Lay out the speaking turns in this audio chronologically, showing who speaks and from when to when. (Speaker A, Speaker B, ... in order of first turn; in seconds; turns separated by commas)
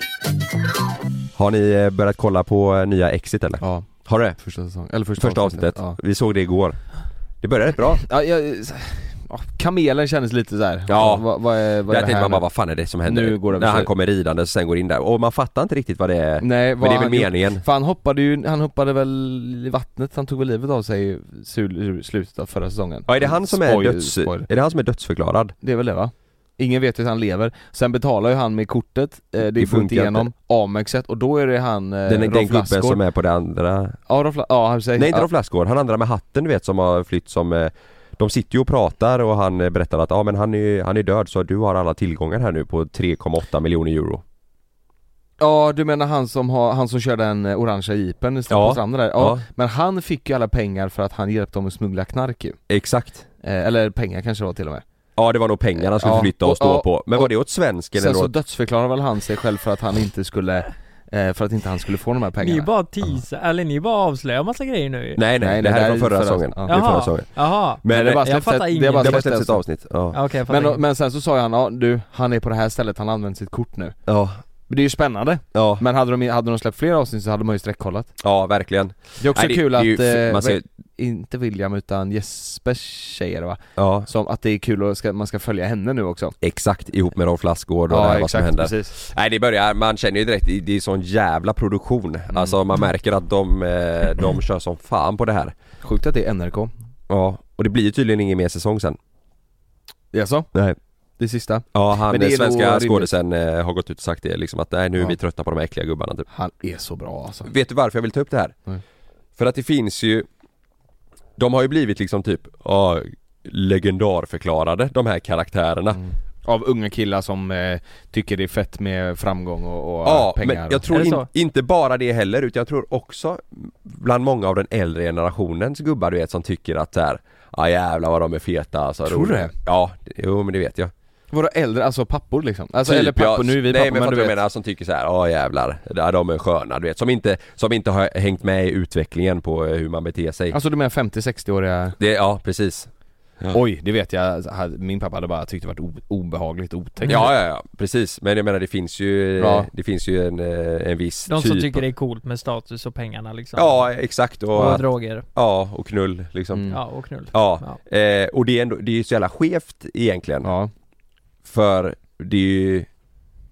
Speaker A: 1.3-4.4, Speaker B: 3.6-6.0, Speaker A: 5.2-8.0, Speaker B: 8.0-13.9, Speaker A: 10.9-17.6, Speaker B: 16.4-24.5, Speaker A: 23.1-25.5, Speaker B: 25.6-33.0, Speaker A: 29.4-30.3, Speaker A: 32.1-34.0, Speaker B: 34.1-35.3, Speaker A: 35.0-44.2, Speaker B: 45.4-52.6, Speaker A: 48.5-49.4, Speaker A: 52.7-53.2, Speaker B: 53.4-54.8, Speaker A: 55.2-58.3, Speaker B: 55.9-57.3, Speaker B: 57.9-62.7, Speaker C: 62.4-65.2, Speaker A: 65.2-70.2, Speaker B: 65.4-67.1, Speaker C: 66.7-69.2, Speaker B: 67.9-69.6, Speaker C: 70.1-70.8, Speaker B: 70.5-74.0, Speaker A: 74.1-74.4, Speaker B: 74.7-78.1, Speaker A: 75.5-75.8, Speaker A: 78.2-80.6, Speaker B: 79.2-86.4, Speaker A: 83.8-84.1, Speaker A: 86.4-95.5, Speaker B: 87.9-88.9, Speaker B: 92.3-92.6, Speaker B: 95.8-96.7, Speaker A: 97.1-99.0, Speaker B: 100.1-100.6, Speaker B: 101.2-103.1, Speaker A: 101.7-106.3, Speaker B: 106.3-107.5, Speaker A: 107.4-108.5, Speaker A: 109.4-110.2, Speaker A: 111.4-116.0, Speaker B: 115.9-120.8, Speaker A: 120.0-130.9, Speaker C: 120.9-121.3, Speaker B: 129.1-129.5, Speaker B: 131.3-134.3, Speaker A: 132.8-140.6, Speaker B: 140.5-142.0, Speaker A: 142.0-142.9, Speaker B: 143.5-147.3, Speaker A: 147.0-151.8, Speaker B: 149.4-149.7, Speaker C: 151.3-153.9, Speaker A: 153.6-156.8, Speaker C: 154.5-155.2, Speaker B: 154.6-154.8, Speaker B: 156.5-156.8, Speaker C: 156.7-157.8, Speaker A: 157.3-160.5, Speaker B: 160.4-160.7, Speaker A: 161.4-162.9